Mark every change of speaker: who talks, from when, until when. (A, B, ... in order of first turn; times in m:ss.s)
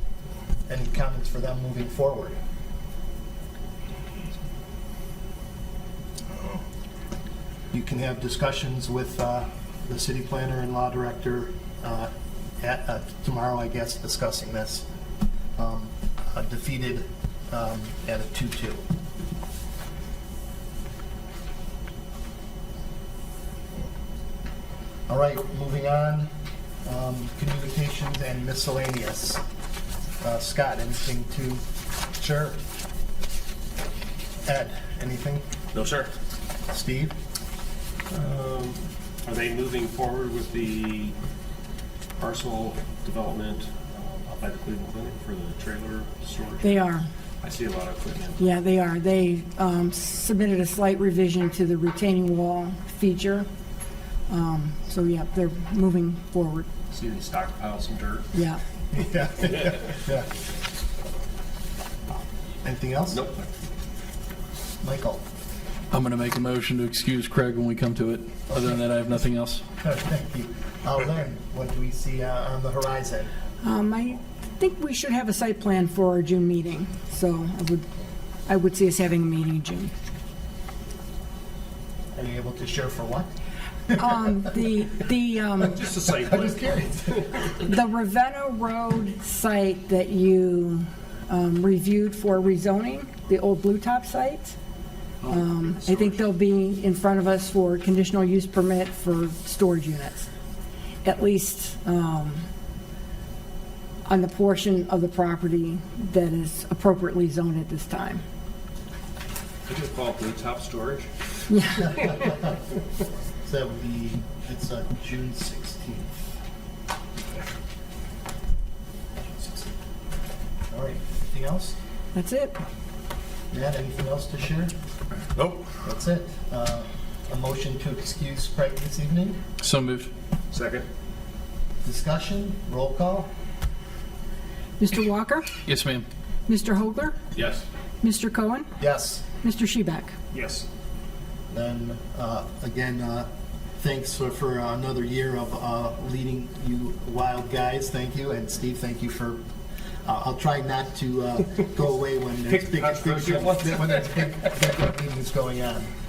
0:00.7-0:02.4 A
0:07.7-0:14.8 A
0:15.6-0:18.8 A
0:25.1-0:26.3 A
0:26.8-0:29.4 A
0:30.2-0:31.6 A
0:32.2-0:32.6 A
0:34.4-0:35.4 A
0:35.7-0:36.1 B
0:36.7-0:37.1 A
0:38.1-0:41.1 B
0:42.2-0:48.4 B
0:46.6-0:47.1 C
0:48.4-0:53.5 C
0:54.3-0:56.7 C
0:56.9-0:58.3 B
0:58.3-0:58.6 C
0:58.9-1:00.3 A
1:02.6-1:03.2 A
1:03.1-1:03.5 B
1:04.8-1:05.2 A
1:05.9-1:09.6 D
1:09.8-1:13.3 A
1:13.6-1:17.9 C
1:18.4-1:19.9 C
1:22.1-1:23.3 A
1:23.9-1:25.8 C
1:25.7-1:27.4 B
1:26.1-1:27.3 A
1:27.6-1:34.5 C
1:35.2-1:36.2 B
1:35.3-1:40.3 C
1:41.0-1:42.5 C
1:44.0-1:48.2 C
1:49.7-1:51.1 B
1:51.5-1:52.2 C
1:51.9-1:52.4 A
1:53.4-1:56.2 A
1:59.2-1:59.7 A
2:00.7-2:01.8 A
2:02.1-2:02.6 C
2:03.5-2:04.7 A
2:05.4-2:05.6 B
2:05.8-2:09.4 A
2:09.6-2:10.1 D
2:10.5-2:10.8 B
2:11.8-2:13.3 A
2:14.8-2:15.5 C
2:15.6-2:16.0 D
2:16.5-2:17.2 C
2:17.3-2:17.6 B
2:18.0-2:18.7 C
2:18.8-2:19.2 A
2:19.4-2:20.1 C
2:20.3-2:20.7 B
2:21.5-2:29.4 A
2:30.0-2:35.9 A
2:32.5-2:34.4 B